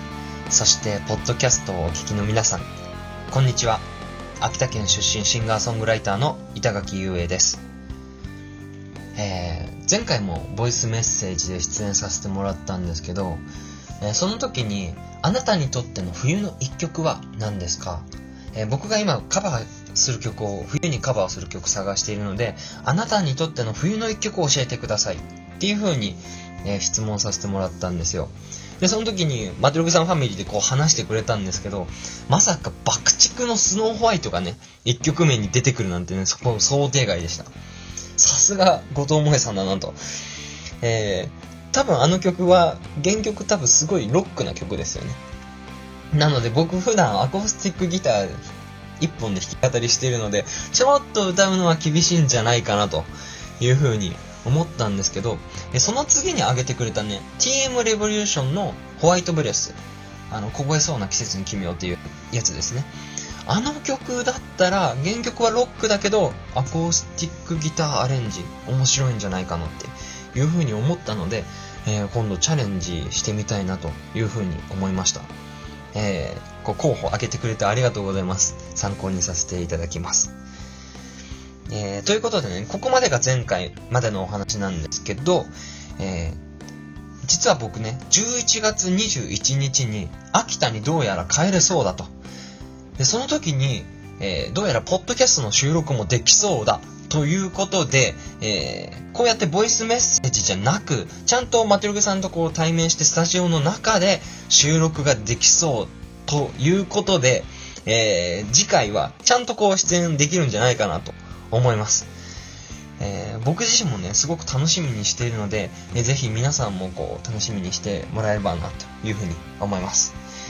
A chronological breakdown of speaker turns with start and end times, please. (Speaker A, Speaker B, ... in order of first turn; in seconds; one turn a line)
Speaker A: 0.5-2.7
Speaker A: 3.3-3.8
Speaker A: 4.4-7.6
Speaker A: 9.2-13.4
Speaker A: 14.0-37.5
Speaker A: 38.2-40.0
Speaker A: 40.8-45.2
Speaker A: 46.1-48.4
Speaker A: 49.0-53.1
Speaker A: 53.6-59.8
Speaker A: 60.3-62.9
Speaker A: 63.5-75.3
Speaker A: 75.9-80.3
Speaker A: 81.7-86.4
Speaker A: 87.2-92.1
Speaker A: 93.0-112.1
Speaker A: 113.0-120.2